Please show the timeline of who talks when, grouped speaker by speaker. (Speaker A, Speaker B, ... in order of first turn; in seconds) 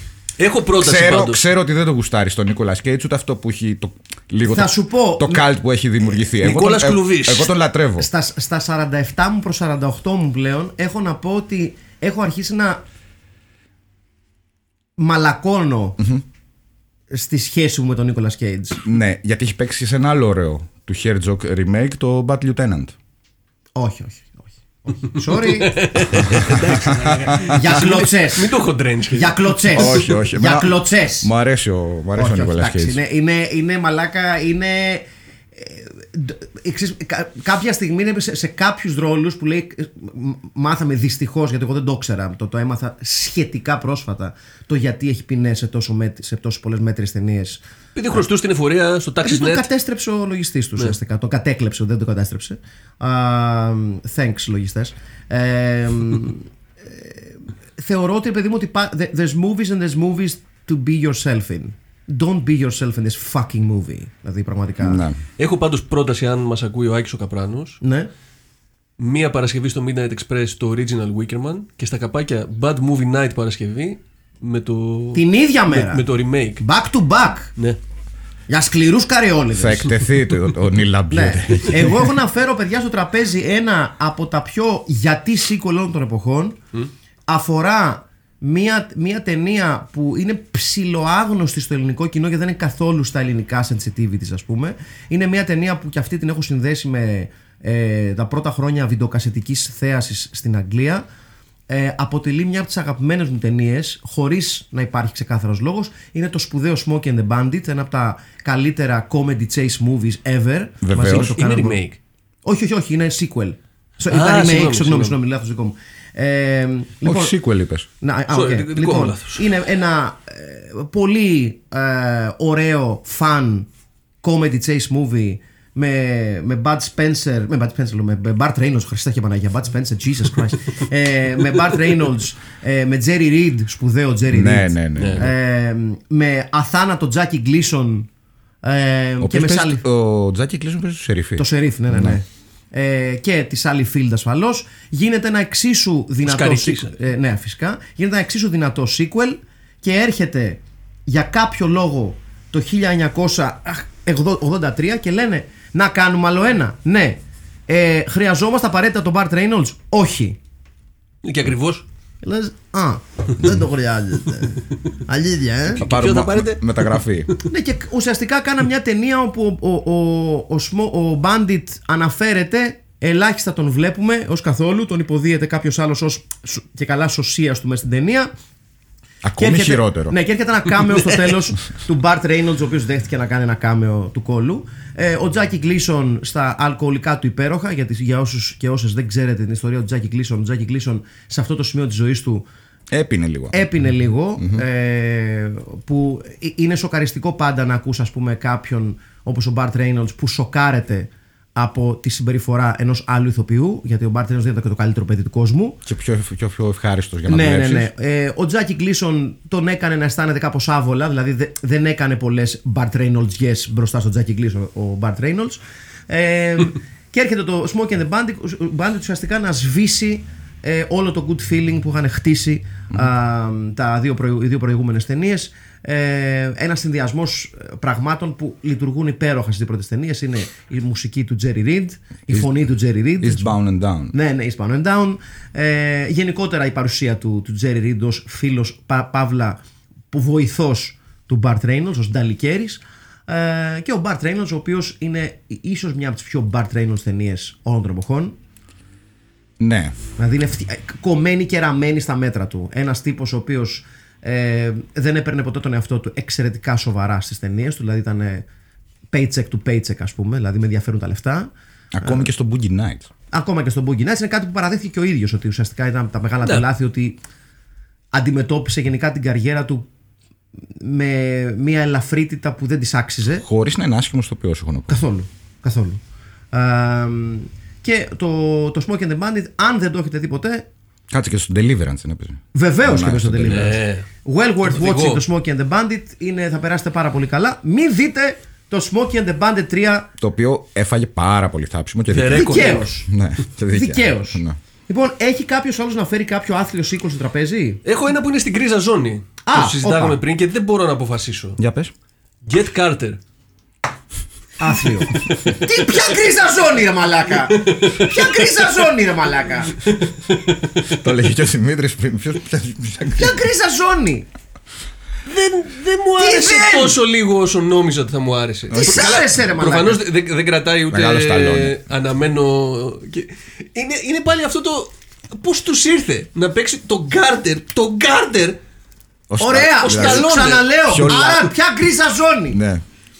Speaker A: 0.4-1.4, 6.3-7.5, 25.4-29.9, 48.0-49.7, 65.4-67.8, 69.0-76.6, 111.0-112.0, 114.1-115.2, 118.3-119.5, 135.0-135.3, 146.2-146.9, 161.2-161.8, 165.8-167.1, 283.5-284.1, 284.6-285.2, 292.1-292.8, 297.8-301.6, 302.4-303.2, 307.7-308.2, 309.9-310.9, 315.2-328.6, 329.8-331.4
Speaker B: 0.8-8.1, 16.0-16.2, 18.8-22.9, 26.3-27.6, 29.7-33.0, 64.8-65.2, 79.5-82.1, 110.8-111.3, 117.0-117.9, 134.3-135.3, 139.2-142.2, 165.8-167.3, 179.2-180.2, 192.9-193.6, 194.4-194.6, 205.8-207.9, 233.2-234.1, 249.6-249.9, 261.9-263.1, 273.4-275.0, 281.1-283.8, 290.2-294.6, 301.6-301.9, 310.9-313.4, 320.9-321.8, 329.3-331.5, 332.5-332.8
Speaker C: 4.5-5.5, 8.0-12.8, 15.0-16.0, 17.1-18.8, 23.8-26.6, 27.4-28.6, 29.1-31.3, 32.1-47.6, 49.2-65.0, 67.8-68.1, 75.1-76.0, 76.6-77.5, 78.5-79.9, 81.1-86.6, 87.3-101.0, 101.7-111.8, 112.4-117.3, 118.0-123.7, 124.2-138.1, 138.6-139.8, 141.4-160.4, 162.2-165.8, 167.4-178.3, 179.4-192.4, 193.5-205.8, 207.3-233.6, 234.1-239.6, 240.1-248.4, 250.2-258.4, 259.1-262.3, 263.3-267.2, 268.1-269.9, 270.7-273.4, 274.9-276.0, 276.5-280.6, 282.5-290.1, 292.3-293.1, 293.7-297.8, 299.4-300.2, 304.6-309.9, 313.1-314.3, 316.2-317.0, 318.7-320.0, 329.4-332.6